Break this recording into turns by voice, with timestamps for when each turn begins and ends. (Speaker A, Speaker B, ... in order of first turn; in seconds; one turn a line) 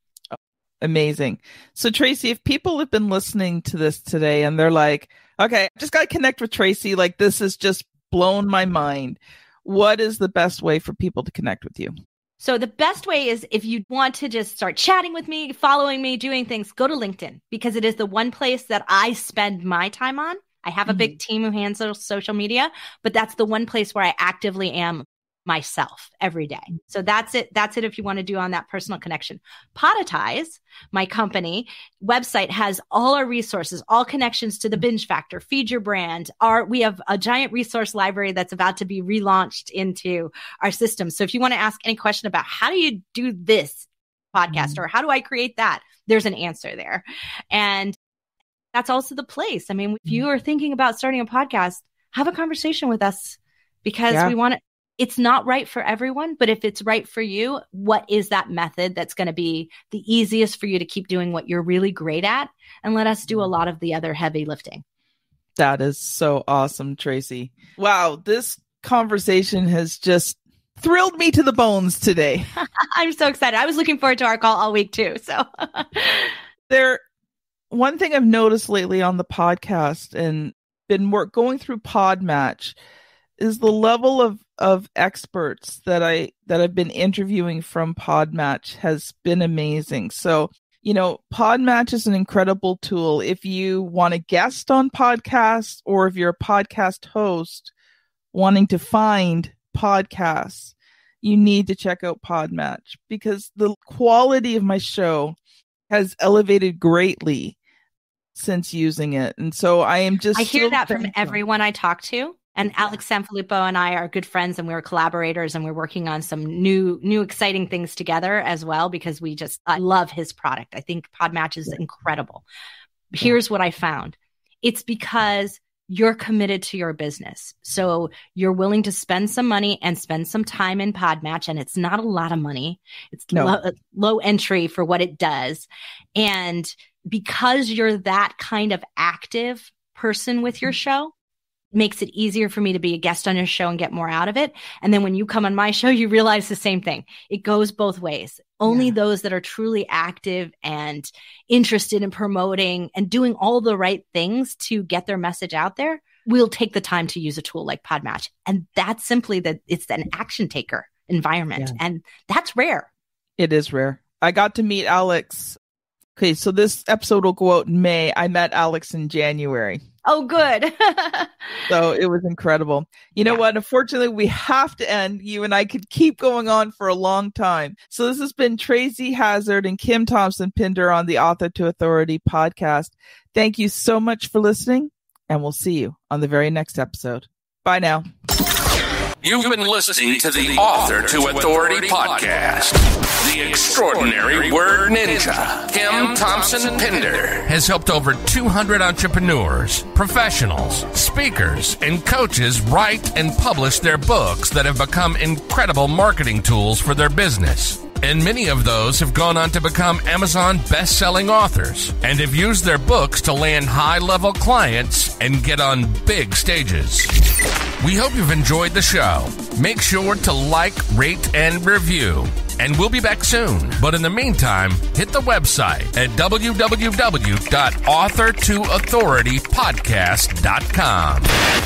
Speaker A: 0.3-11.9
Speaker B: 12.4-48.0
Speaker A: 20.9-21.1
Speaker A: 44.5-44.8
Speaker B: 48.7-64.8
Speaker A: 54.1-54.3
Speaker A: 65.6-72.5
Speaker B: 72.5-76.4
Speaker A: 76.7-77.0
Speaker A: 77.7-82.8
Speaker A: 83.4-97.7
Speaker A: 98.3-105.4
Speaker A: 105.9-107.5
Speaker A: 108.3-111.4
Speaker B: 110.3-122.4
Speaker A: 112.6-112.9
Speaker B: 123.1-141.1
Speaker A: 133.3-133.6
Speaker B: 141.7-162.9
Speaker A: 148.7-148.9
Speaker A: 163.4-165.6
Speaker A: 166.2-169.8
Speaker B: 170.0-171.7
Speaker A: 171.7-188.1
Speaker C: 189.2-217.2
Speaker C: 217.8-231.3